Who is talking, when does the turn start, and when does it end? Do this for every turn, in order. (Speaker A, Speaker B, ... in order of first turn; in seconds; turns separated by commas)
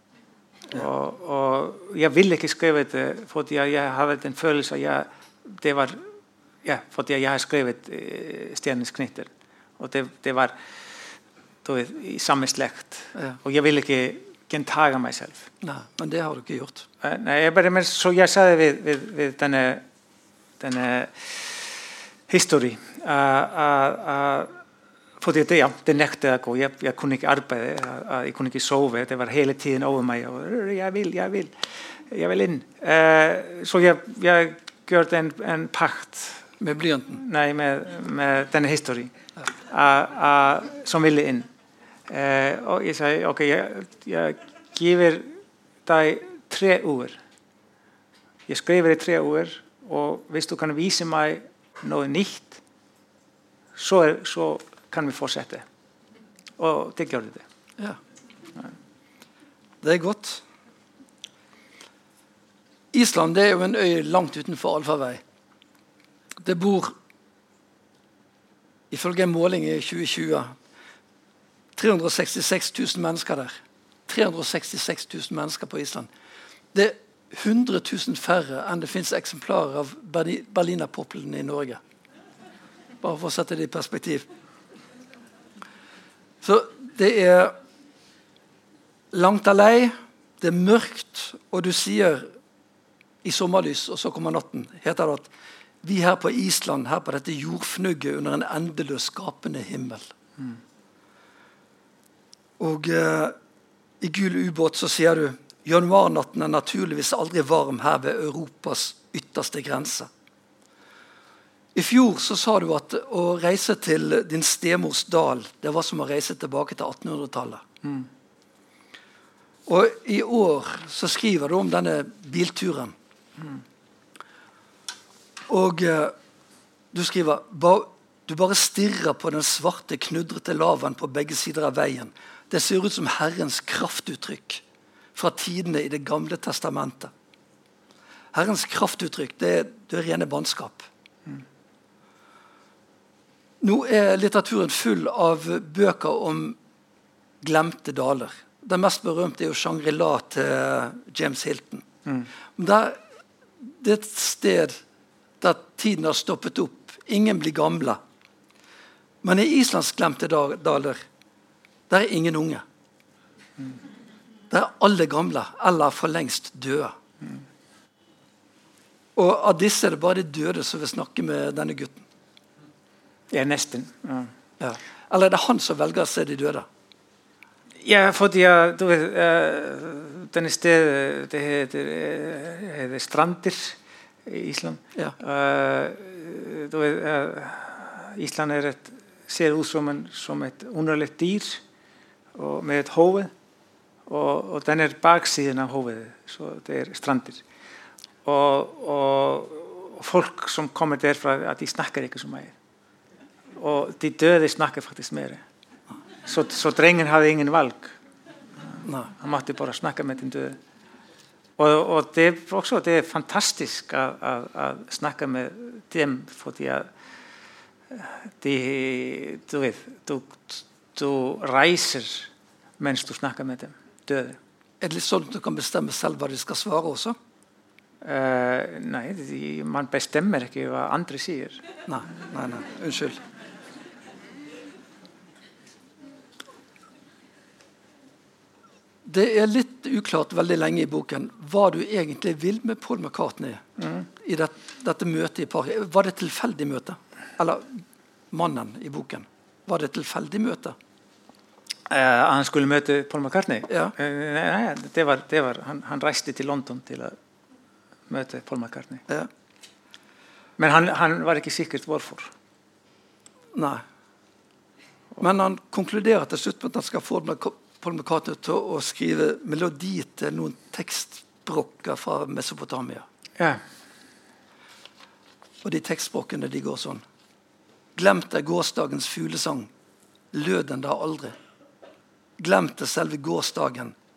Speaker A: 0.7-6.1, Speaker A: 6.6-10.5, Speaker A: 11.6-15.5, Speaker B: 15.6-16.9, Speaker A: 17.0-19.8, Speaker A: 20.6-24.6, Speaker A: 25.2-36.5, Speaker B: 36.6-37.2, Speaker A: 37.2-41.5, Speaker A: 42.1-47.2, Speaker A: 48.5-52.6, Speaker A: 53.8-55.6, Speaker A: 56.6-57.4, Speaker B: 59.8-60.4, Speaker B: 62.9-65.2, Speaker B: 66.4-67.0, Speaker B: 68.9-70.5, Speaker B: 71.8-73.5, Speaker B: 74.1-76.1, Speaker B: 76.7-81.8, Speaker B: 83.0-84.2, Speaker B: 86.4-87.5, Speaker B: 89.1-92.3, Speaker B: 93.2-95.3, Speaker B: 95.8-100.1, Speaker B: 102.6-103.3, Speaker B: 104.0-110.1, Speaker B: 111.7-117.6, Speaker A: 117.8-118.1, Speaker B: 119.7-122.9, Speaker B: 125.5-126.1, Speaker B: 126.9-134.6, Speaker B: 135.1-137.1, Speaker B: 138.3-140.9, Speaker B: 143.6-146.6, Speaker B: 147.4-151.8, Speaker B: 152.6-153.0, Speaker B: 153.6-154.8, Speaker B: 155.4-158.0, Speaker B: 159.2-161.0, Speaker B: 161.9-162.6, Speaker B: 164.5-166.9, Speaker B: 169.2-172.1, Speaker A: 173.3-174.3, Speaker B: 174.6-176.7, Speaker A: 177.8-191.6, Speaker A: 192.3-193.3, Speaker A: 194.1-197.4, Speaker A: 198.2-202.5, Speaker A: 203.6-205.4, Speaker A: 206.2-208.0, Speaker B: 208.8-209.1, Speaker A: 209.1-210.6, Speaker A: 211.6-216.9, Speaker A: 217.9-224.4, Speaker B: 224.8-227.2, Speaker A: 228.0-231.6, Speaker B: 231.9-233.2, Speaker B: 239.0-243.6, Speaker A: 243.8-244.1, Speaker B: 244.2-250.8, Speaker A: 251.9-257.1, Speaker B: 253.7-253.9, Speaker A: 258.1-259.0, Speaker A: 260.6-262.3, Speaker B: 263.5-263.8, Speaker B: 265.2-273.1, Speaker B: 275.6-277.0, Speaker B: 277.9-279.7, Speaker B: 280.3-281.4, Speaker B: 282.4-283.9